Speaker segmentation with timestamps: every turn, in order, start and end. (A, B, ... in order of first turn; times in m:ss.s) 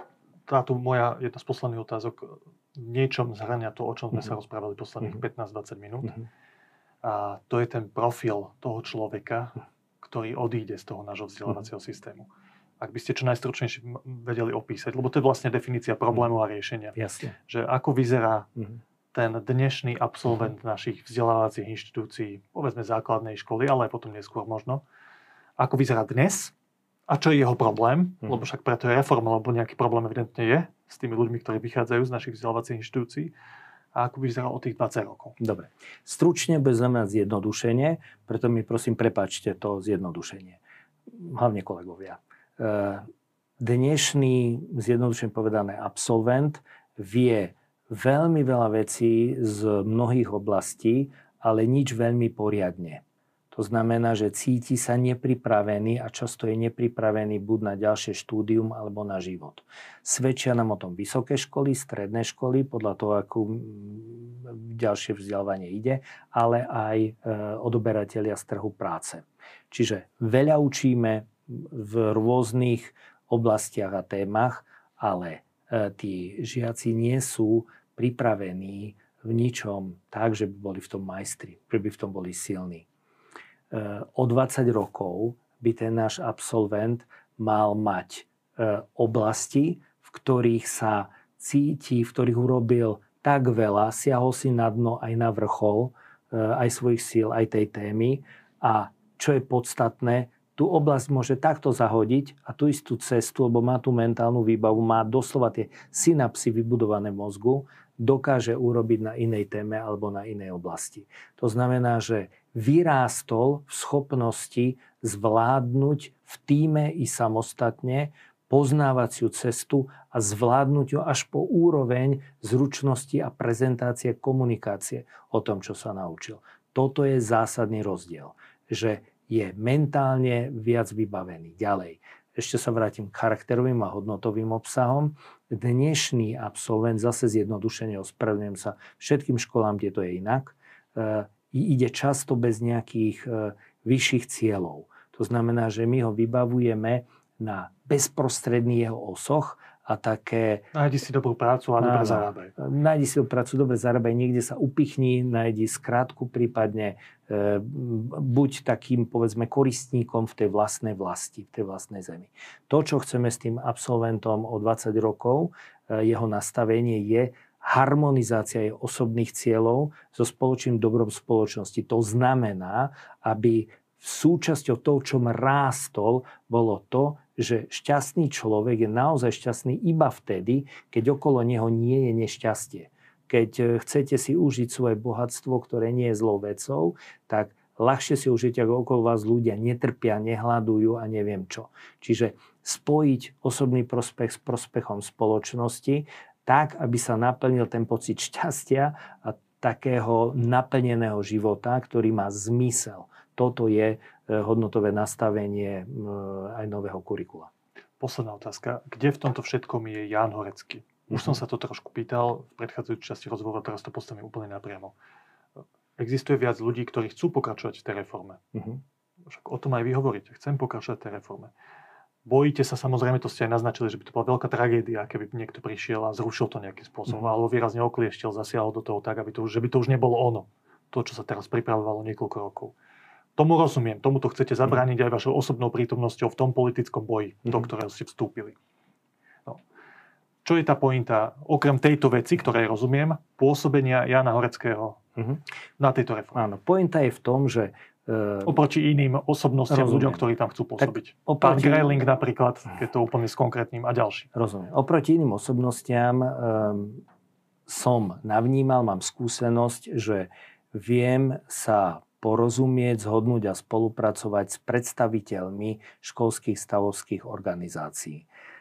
0:00.5-0:06.2 A
0:07.0-0:12.3 A
0:12.8-0:18.5 A
0:17.0-0:17.3 B
0:19.1-0:24.8 A
0:25.6-0:26.5 A
0:27.1-0:33.3 A
0:34.0-0:35.4 A
0:35.4-0:40.6 B
0:41.1-0:43.0 B
0:43.6-1:22.9 B
1:23.7-2:30.7 B
2:30.7-2:32.5 A
2:31.8-3:27.5 B
3:28.0-3:34.9 A
3:31.1-3:31.4 B
3:36.0-3:38.4 A
3:38.6-3:38.8 B
3:39.3-3:41.5 A
3:42.2-3:52.7 A
3:53.4-3:58.6 A
4:00.4-4:05.0 A
4:05.8-4:06.4 A
4:06.4-4:08.5 B
4:08.4-4:14.3 A
4:09.7-4:10.2 B
4:10.8-4:12.0 B
4:14.4-4:17.0 B
4:17.7-4:28.3 B